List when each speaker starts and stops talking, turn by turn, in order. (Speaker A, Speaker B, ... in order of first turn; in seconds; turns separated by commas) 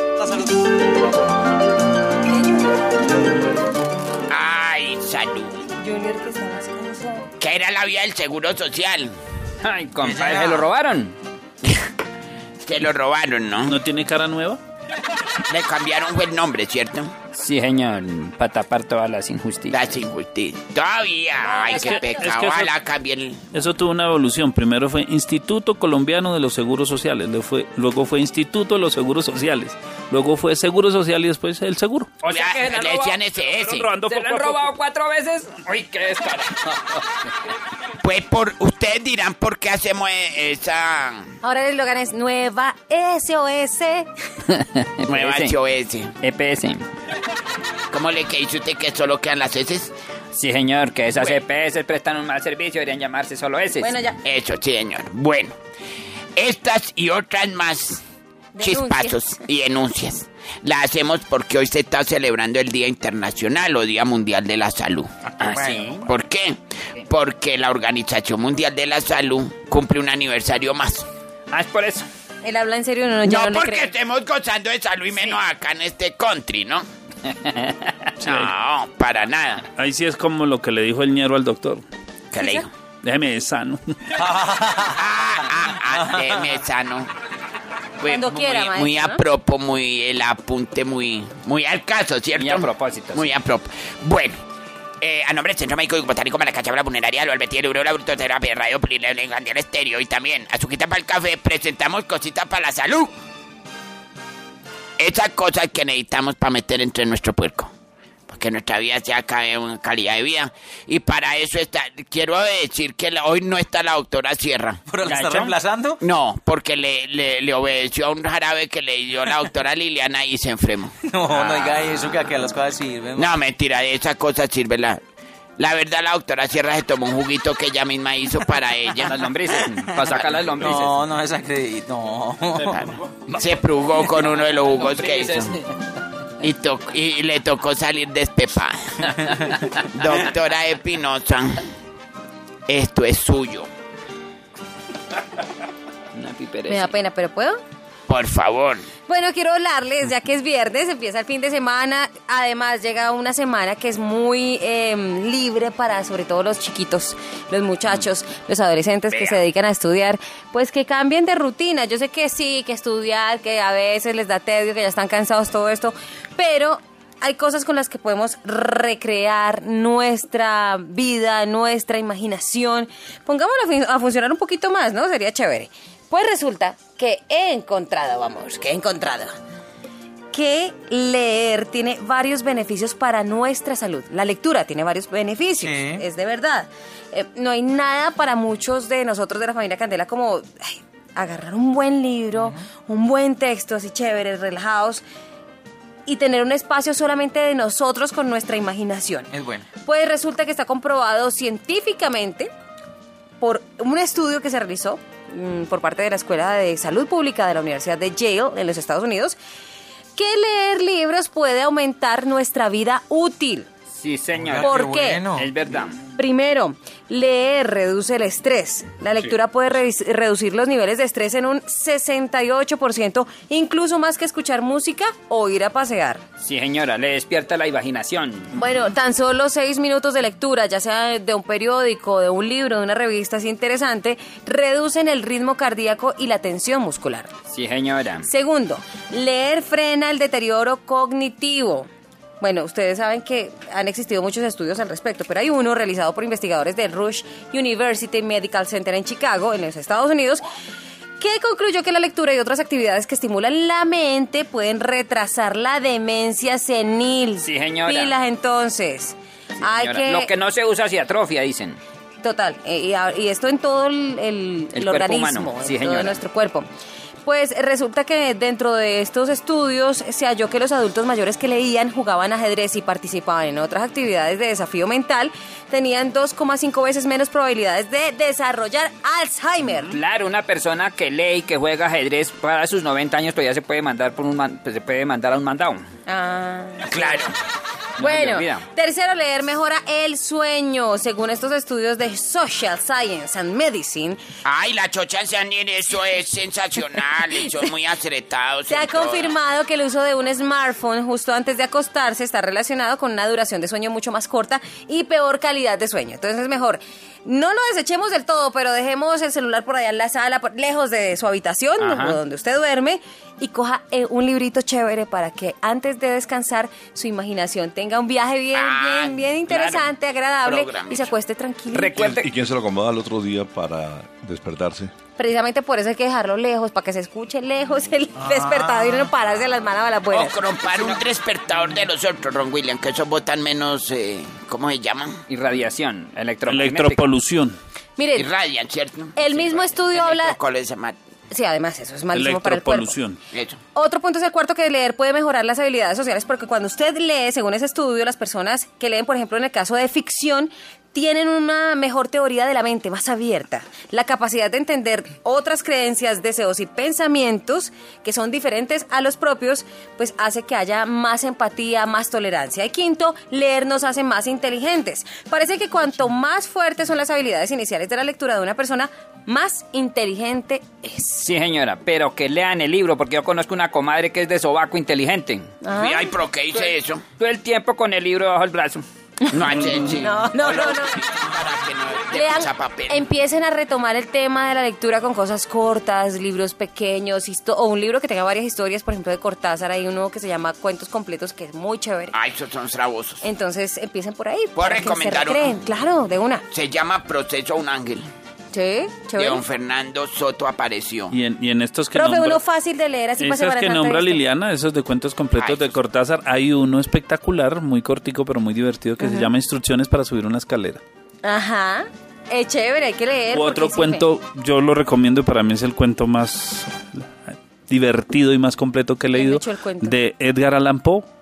Speaker A: 4.3-5.6, Speaker B: 5.8-7.3, Speaker A: 7.4-9.1, Speaker C: 9.6-11.2, Speaker D: 10.0-10.7, Speaker A: 12.7-13.8, Speaker E: 13.7-14.6, Speaker A: 15.5-17.1, Speaker C: 17.3-19.8, Speaker A: 19.7-23.5, Speaker B: 21.4-22.3, Speaker E: 21.7-22.7, Speaker E: 23.5-32.1, Speaker C: 32.2-33.2, Speaker A: 32.3-33.9, Speaker E: 33.6-34.7, Speaker C: 34.0-36.7, Speaker A: 38.0-41.3, Speaker B: 41.4-44.1, Speaker C: 44.5-45.5, Speaker A: 45.0-46.1, Speaker C: 46.2-46.9, Speaker A: 47.9-49.9, Speaker C: 50.3-54.0, Speaker A: 51.1-51.4, Speaker B: 53.8-54.2, Speaker A: 54.2-55.5, Speaker A: 56.4-58.0, Speaker B: 58.5-59.3, Speaker A: 58.6-71.1, Speaker C: 65.4-66.1, Speaker C: 71.5-72.1, Speaker B: 72.4-73.9, Speaker A: 73.3-76.8, Speaker A: 78.2-79.7, Speaker E: 79.8-81.8, Speaker A: 82.3-82.7, Speaker E: 83.0-84.3, Speaker D: 84.4-84.8, Speaker A: 84.8-87.1, Speaker A: 88.0-94.4, Speaker B: 88.0-89.2, Speaker C: 92.4-93.3, Speaker A: 95.0-103.1, Speaker A: 105.0-107.7, Speaker A: 108.3-114.8, Speaker D: 114.9-116.0, Speaker C: 115.1-115.5, Speaker A: 116.0-121.8, Speaker D: 121.1-123.4, Speaker A: 123.2-125.0, Speaker A: 125.6-129.2, Speaker C: 129.1-131.0, Speaker D: 130.5-132.7, Speaker A: 132.7-135.5, Speaker C: 134.7-135.6, Speaker A: 136.4-141.7, Speaker A: 142.7-143.7, Speaker C: 146.1-146.9, Speaker B: 146.7-147.6, Speaker A: 148.1-148.9, Speaker B: 149.1-179.3, Speaker A: 159.1-159.4, Speaker B: 180.3-195.0, Speaker D: 185.6-186.0, Speaker B: 196.1-199.3, Speaker D: 199.3-199.7, Speaker B: 199.8-202.5, Speaker B: 203.4-209.4, Speaker B: 210.2-213.7, Speaker C: 213.9-214.8, Speaker D: 214.4-215.5, Speaker B: 214.6-215.2, Speaker C: 215.3-216.0, Speaker B: 216.2-226.2, Speaker C: 226.4-228.5, Speaker B: 228.5-237.3, Speaker C: 237.5-238.3, Speaker B: 238.2-241.9, Speaker B: 242.4-250.4, Speaker B: 251.2-260.3, Speaker C: 257.4-258.1, Speaker C: 259.6-261.8, Speaker B: 262.2-266.6, Speaker C: 264.7-266.2, Speaker B: 267.2-280.0, Speaker C: 279.8-285.9, Speaker B: 286.1-287.2, Speaker A: 286.9-287.3, Speaker C: 288.0-288.6, Speaker B: 288.0-294.2, Speaker A: 294.4-299.3, Speaker B: 298.7-322.2, Speaker C: 311.8-312.2, Speaker A: 318.5-319.8, Speaker C: 319.5-319.8, Speaker A: 320.4-321.1, Speaker C: 321.7-322.3, Speaker F: 322.1-324.9, Speaker B: 325.2-331.0, Speaker D: 328.3-328.6, Speaker A: 330.1-335.1, Speaker C: 335.3-337.0, Speaker E: 336.4-337.6, Speaker B: 338.0-338.3, Speaker A: 338.1-340.9, Speaker B: 339.1-340.4, Speaker B: 341.3-343.0, Speaker E: 342.1-343.2, Speaker A: 343.3-343.6, Speaker B: 343.7-371.3, Speaker C: 371.2-375.5, Speaker B: 375.6-376.1, Speaker A: 375.8-377.0, Speaker C: 376.5-378.8, Speaker A: 379.3-383.0, Speaker B: 379.3-381.0, Speaker B: 382.1-392.1, Speaker A: 392.1-393.2, Speaker B: 393.2-396.4, Speaker A: 394.6-395.5, Speaker A: 396.5-398.1, Speaker B: 398.5-399.4, Speaker A: 399.2-401.1, Speaker E: 401.1-402.4, Speaker B: 401.9-404.2, Speaker E: 403.2-410.8, Speaker A: 405.4-405.8, Speaker B: 409.0-409.3, Speaker B: 411.2-414.1, Speaker E: 413.3-421.1, Speaker B: 419.1-420.0